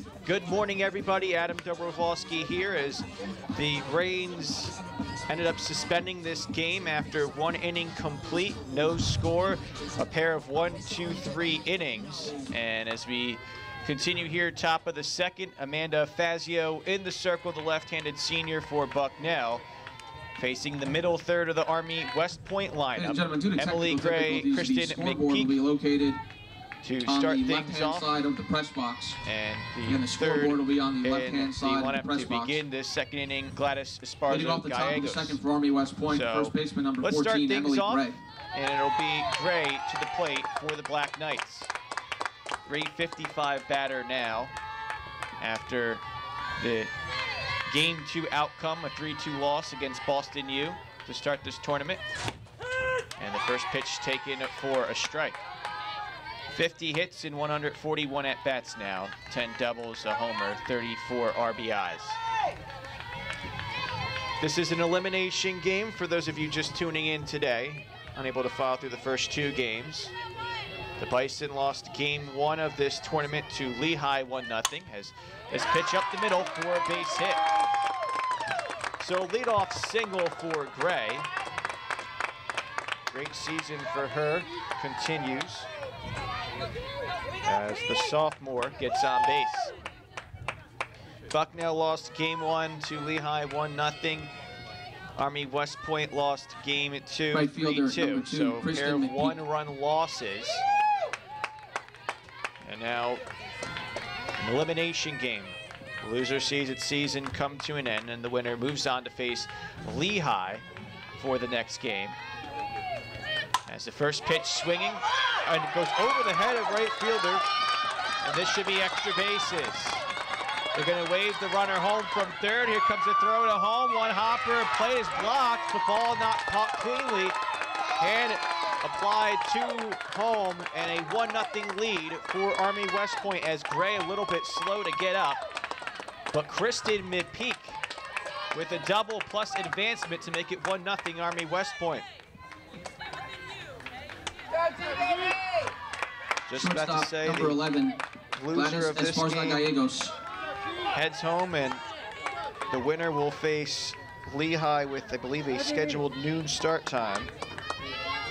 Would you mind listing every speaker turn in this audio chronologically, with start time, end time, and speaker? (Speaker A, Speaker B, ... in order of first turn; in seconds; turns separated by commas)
Speaker A: 0.2-4.8, Speaker A: 5.3-19.6, Speaker A: 20.4-25.6, Speaker B: 22.9-26.2, Speaker A: 26.8-28.1, Speaker B: 27.0-29.2, Speaker A: 29.2-35.4, Speaker B: 29.9-32.6, Speaker B: 34.3-38.2, Speaker A: 36.1-41.7, Speaker A: 42.6-44.5, Speaker A: 45.4-46.0, Speaker A: 46.6-46.9, Speaker A: 47.7-52.0, Speaker A: 53.2-55.4, Speaker A: 56.5-62.2, Speaker A: 64.4-70.1, Speaker A: 71.0-77.5, Speaker A: 79.0-81.3, Speaker A: 83.1-85.7, Speaker A: 87.4-89.7, Speaker A: 91.3-94.3, Speaker A: 95.2-100.6, Speaker B: 97.3-99.4, Speaker A: 102.6-103.2, Speaker A: 104.4-110.6, Speaker A: 111.2-112.2, Speaker A: 113.7-117.5, Speaker A: 118.2-120.0, Speaker A: 120.7-127.4, Speaker A: 128.0-135.4, Speaker A: 136.3-137.8, Speaker A: 138.5-142.1, Speaker A: 146.5-147.6, Speaker B: 146.6-148.0, Speaker A: 148.3-149.7, Speaker B: 148.5-150.2, Speaker A: 150.9-151.8, Speaker A: 152.7-157.3